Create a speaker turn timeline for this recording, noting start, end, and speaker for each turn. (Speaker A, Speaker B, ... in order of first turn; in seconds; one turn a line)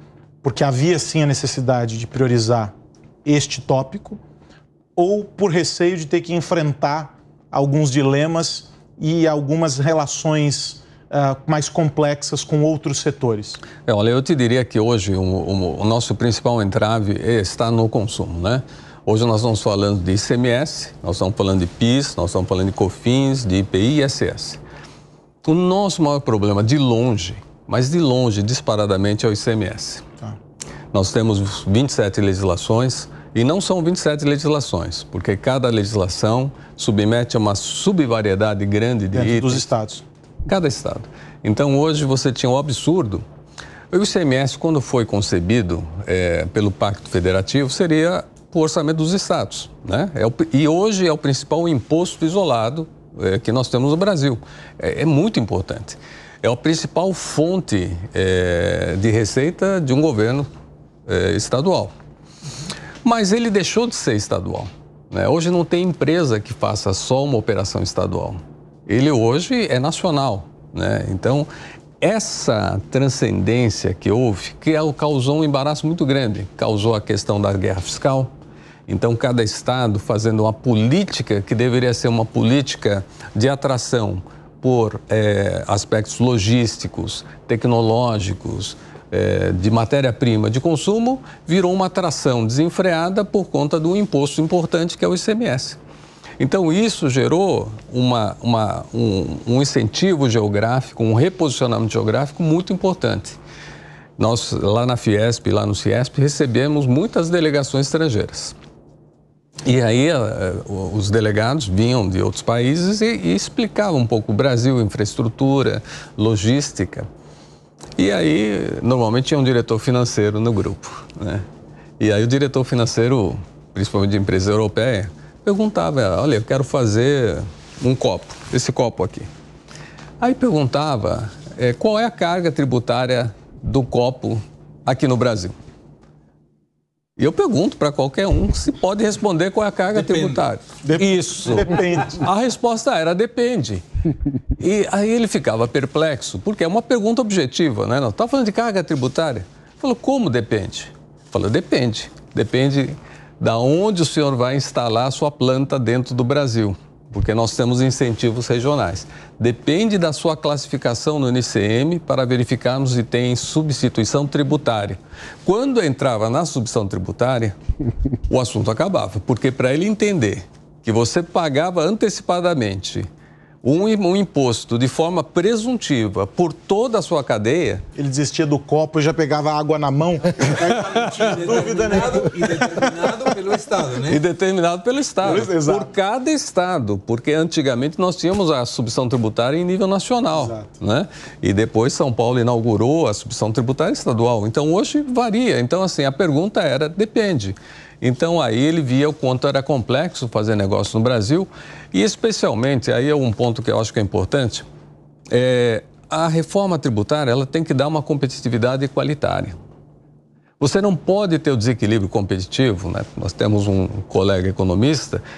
Speaker A: 0.4-2.7
Speaker A: 3.2-4.2
Speaker A: 5.0-13.6
Speaker B: 13.8-24.6
Speaker B: 25.4-30.0
Speaker B: 30.9-39.7
Speaker A: 39.1-40.0
Speaker B: 40.5-43.2
Speaker B: 43.9-60.5
Speaker B: 61.1-61.9
Speaker B: 63.0-71.5
Speaker B: 72.0-78.3
Speaker B: 78.9-95.8
Speaker B: 96.4-103.4
Speaker B: 104.2-108.5
Speaker B: 109.7-117.0
Speaker B: 118.0-121.4
Speaker B: 122.0-129.3
Speaker B: 130.2-135.5
Speaker B: 137.2-143.8
Speaker A: 140.8-142.2
Speaker B: 144.6-167.6
Speaker B: 168.3-173.1
Speaker B: 173.6-177.8
Speaker A: 177.9-182.8
Speaker C: 180.5-184.2
Speaker B: 180.6-181.2
Speaker B: 184.0-204.7
Speaker A: 185.2-185.9
Speaker A: 190.3-190.7
Speaker B: 205.3-209.6
Speaker B: 210.6-215.2